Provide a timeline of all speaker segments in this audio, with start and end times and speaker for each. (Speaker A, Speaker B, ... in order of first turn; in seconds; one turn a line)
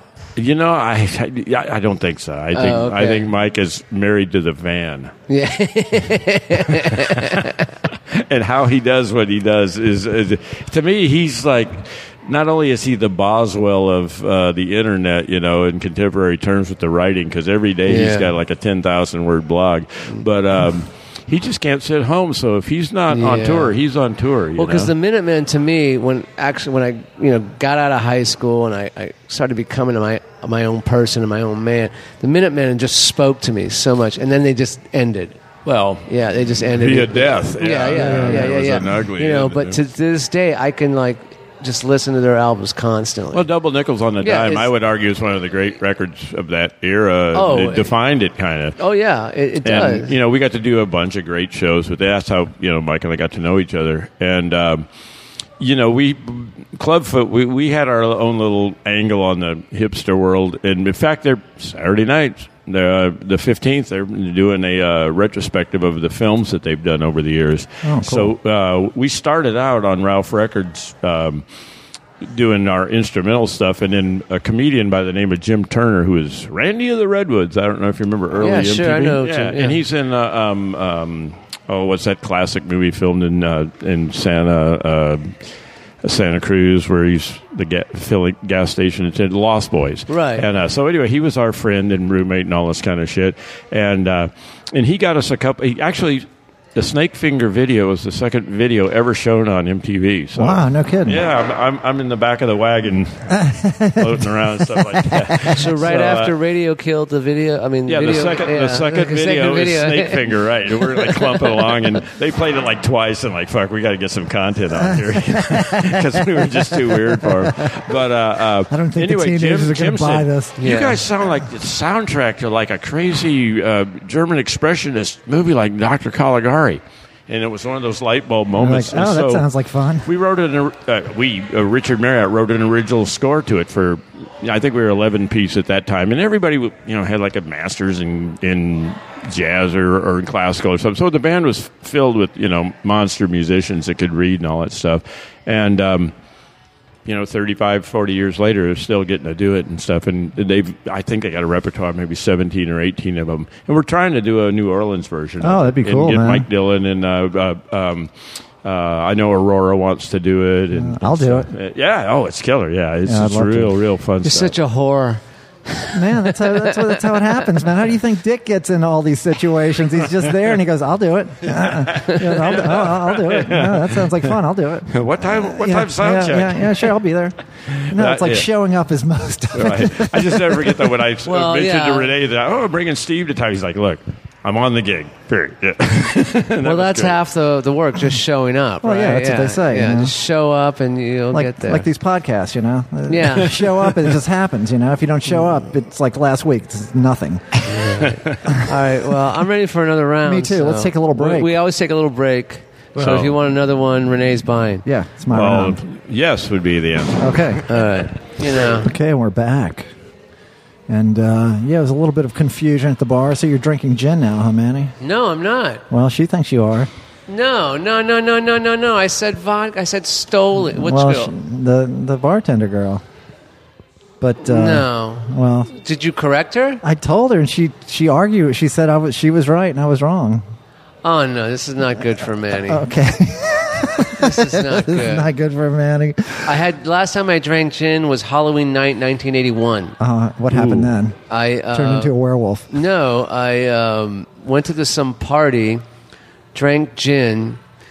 Speaker A: 0.4-5.1
Speaker B: 2.5-3.2
Speaker B: 5.3-7.7
Speaker A: 6.7-24.9
Speaker B: 17.9-18.3
Speaker B: 23.1-23.7
Speaker B: 24.6-35.4
Speaker A: 35.6-39.8
Speaker B: 36.1-43.5
Speaker C: 38.0-38.4
Speaker A: 43.3-48.8
Speaker B: 44.2-44.7
Speaker B: 47.3-47.9
Speaker B: 48.8-50.1
Speaker A: 49.6-54.9
Speaker A: 55.6-71.4
Speaker C: 67.8-68.3
Speaker A: 72.2-85.4
Speaker B: 78.4-79.8
Speaker A: 86.0-106.3
Speaker B: 90.1-90.5
Speaker C: 100.4-101.2
Speaker C: 103.3-105.6
Speaker B: 105.5-111.9
Speaker A: 107.9-129.4
Speaker C: 114.7-117.8
Speaker C: 118.7-120.7
Speaker B: 120.6-121.0
Speaker C: 128.6-130.1
Speaker A: 130.0-146.1
Speaker A: 147.1-158.1
Speaker C: 155.4-156.5
Speaker A: 158.6-164.6
Speaker C: 160.7-161.5
Speaker C: 163.1-163.7
Speaker B: 164.2-167.4
Speaker C: 165.9-177.4
Speaker A: 171.6-174.3
Speaker A: 174.9-176.9
Speaker A: 177.7-178.5
Speaker C: 177.9-181.0
Speaker A: 179.5-187.2
Speaker B: 181.2-182.1
Speaker B: 186.6-191.9
Speaker C: 188.8-190.1
Speaker C: 191.3-197.6
Speaker B: 193.1-193.6
Speaker A: 193.5-194.1
Speaker B: 197.7-204.8
Speaker A: 197.9-198.6
Speaker C: 200.2-201.5
Speaker A: 203.0-203.4
Speaker C: 204.8-205.8
Speaker A: 205.3-207.6
Speaker C: 207.2-207.6
Speaker B: 207.7-208.9
Speaker C: 208.7-209.9
Speaker C: 210.9-214.9
Speaker B: 215.0-215.8
Speaker C: 215.9-216.9
Speaker B: 217.3-221.3
Speaker C: 220.7-223.0
Speaker C: 224.2-225.7
Speaker B: 224.4-226.8
Speaker C: 226.8-230.4
Speaker B: 231.0-232.8
Speaker C: 232.5-236.6
Speaker B: 234.2-235.3
Speaker B: 236.4-239.9
Speaker C: 240.0-241.2
Speaker A: 240.5-240.9
Speaker B: 241.3-242.1
Speaker C: 241.7-242.7
Speaker B: 242.7-245.8
Speaker B: 246.5-247.6